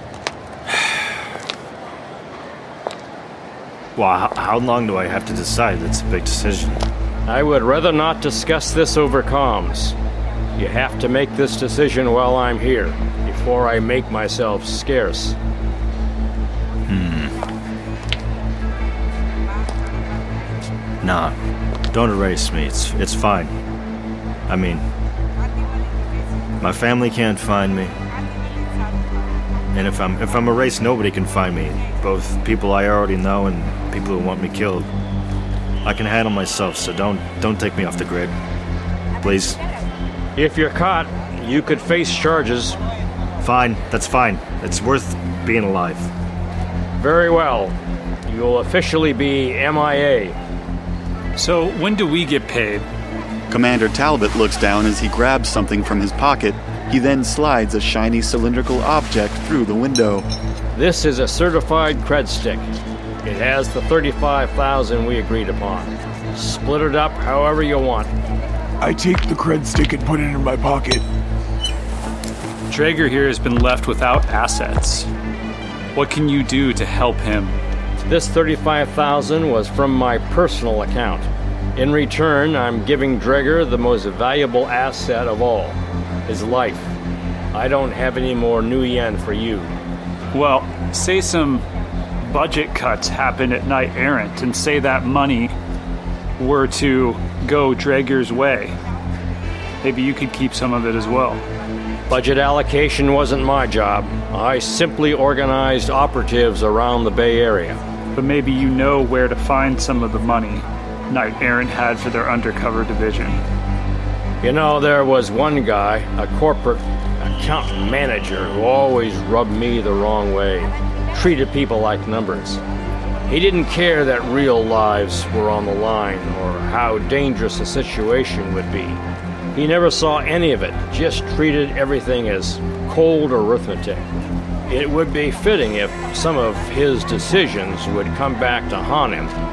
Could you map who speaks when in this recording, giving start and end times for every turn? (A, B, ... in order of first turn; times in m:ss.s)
0:00.7-0:01.0 A
0:04.0-0:06.8 A
0:07.2-0:10.0 B
0:10.6-0:15.4 B
0:16.9-0:17.3 A
0:21.0-0:21.4 A
0:21.9-0:23.5 A
0:24.5-0:24.8 A
0:26.6-0:27.9 A
0:29.7-0:34.9 A
0:35.8-0:38.3 A
0:39.2-0:39.6 A
0:40.4-0:42.8 B
0:43.4-0:46.1 A
0:47.0-0:47.8 B
0:48.3-0:50.4 B
0:51.4-0:52.9 C
0:53.5-1:00.3 D
1:00.7-1:02.7 B
1:03.2-1:08.1 B
1:08.8-1:11.0 E
1:12.7-1:15.1 C
1:15.9-1:17.6 C
1:18.1-1:26.9 B
1:27.5-1:29.7 B
1:30.3-1:31.6 C
1:32.2-1:35.5 C
1:36.4-1:38.8 C
1:39.8-1:41.4 C
1:42.1-1:47.8 B
1:48.1-1:53.4 C
1:54.4-2:02.6 B
2:03.3-2:09.0 B
2:09.5-2:14.1 B
2:14.6-2:19.3 B